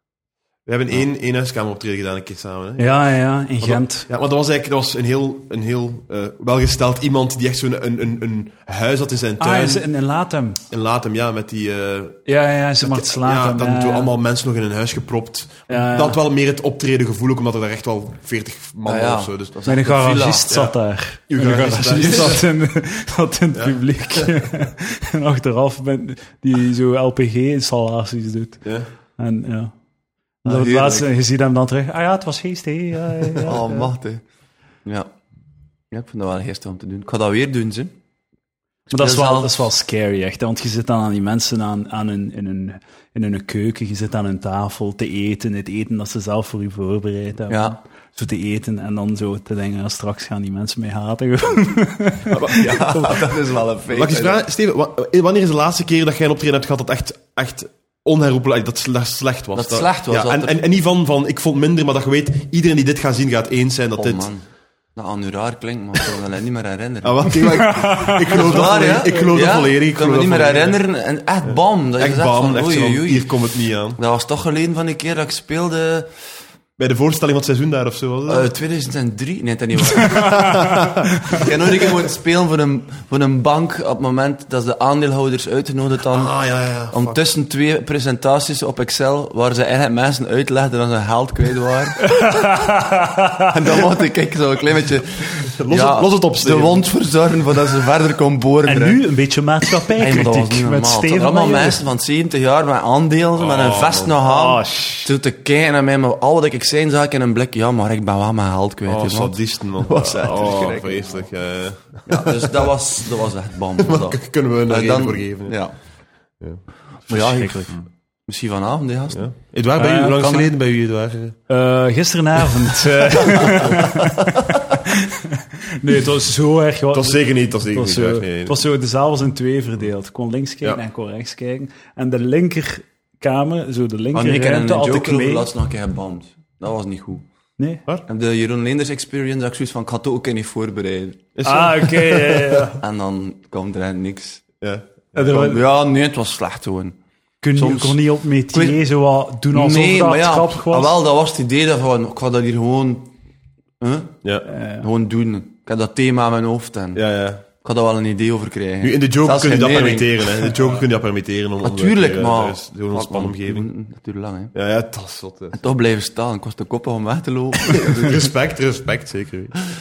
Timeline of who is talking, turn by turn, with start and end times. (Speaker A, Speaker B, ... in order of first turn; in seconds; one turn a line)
Speaker A: 0.7-3.0
Speaker B: 2.8-4.1
Speaker A: 3.6-9.8
Speaker B: 9.4-10.6
Speaker A: 10.7-12.2
Speaker B: 12.2-14.1
Speaker A: 12.8-19.5
Speaker B: 15.7-16.2
Speaker C: 18.8-20.5
Speaker B: 19.6-28.6
Speaker A: 20.5-20.7
Speaker A: 21.3-22.4
Speaker A: 23.5-24.3
Speaker B: 29.2-29.7
Speaker B: 30.4-33.8
Speaker C: 30.4-31.1
Speaker C: 33.4-34.2
Speaker C: 34.8-35.1
Speaker C: 35.9-37.9
Speaker C: 38.9-39.6
Speaker B: 38.9-53.2
Speaker C: 47.5-47.8
Speaker A: 52.3-53.2
Speaker C: 52.5-54.4
Speaker A: 53.9-64.3
Speaker C: 59.5-60.6
Speaker C: 64.0-64.4
Speaker C: 65.0-67.3
Speaker A: 67.0-70.8
Speaker B: 67.4-68.3
Speaker C: 68.3-73.3
Speaker A: 71.5-74.0
Speaker C: 74.0-76.1
Speaker A: 76.8-78.5
Speaker C: 78.3-80.4
Speaker A: 80.0-81.5
Speaker C: 81.3-86.3
Speaker A: 86.1-87.2
Speaker C: 86.9-92.0
Speaker B: 92.0-93.5
Speaker C: 93.5-99.0
Speaker A: 95.5-96.9
Speaker B: 98.7-101.8
Speaker C: 100.0-110.9
Speaker A: 103.3-104.2
Speaker B: 104.2-105.1
Speaker A: 108.8-112.7
Speaker B: 110.3-111.2
Speaker C: 112.1-115.7
Speaker A: 113.8-115.6
Speaker B: 117.1-117.7
Speaker C: 117.1-119.3
Speaker A: 119.1-121.4
Speaker B: 119.8-120.5
Speaker B: 121.5-135.5
Speaker A: 123.3-123.8
Speaker A: 126.9-128.6
Speaker C: 134.1-137.2
Speaker B: 137.6-137.8
Speaker C: 138.1-141.2
Speaker A: 141.3-142.7
Speaker B: 141.4-142.8
Speaker C: 142.8-144.4
Speaker A: 144.6-145.6
Speaker C: 145.2-146.9
Speaker B: 147.4-151.0
Speaker C: 147.5-148.0
Speaker C: 148.5-148.8
Speaker C: 149.5-153.1
Speaker C: 153.8-154.2
Speaker B: 154.5-154.8
Speaker C: 154.8-157.0
Speaker A: 156.9-157.4
Speaker C: 157.6-160.5
Speaker A: 158.8-163.7
Speaker C: 161.6-164.5
Speaker A: 164.5-165.6
Speaker C: 165.5-168.2
Speaker A: 167.7-169.6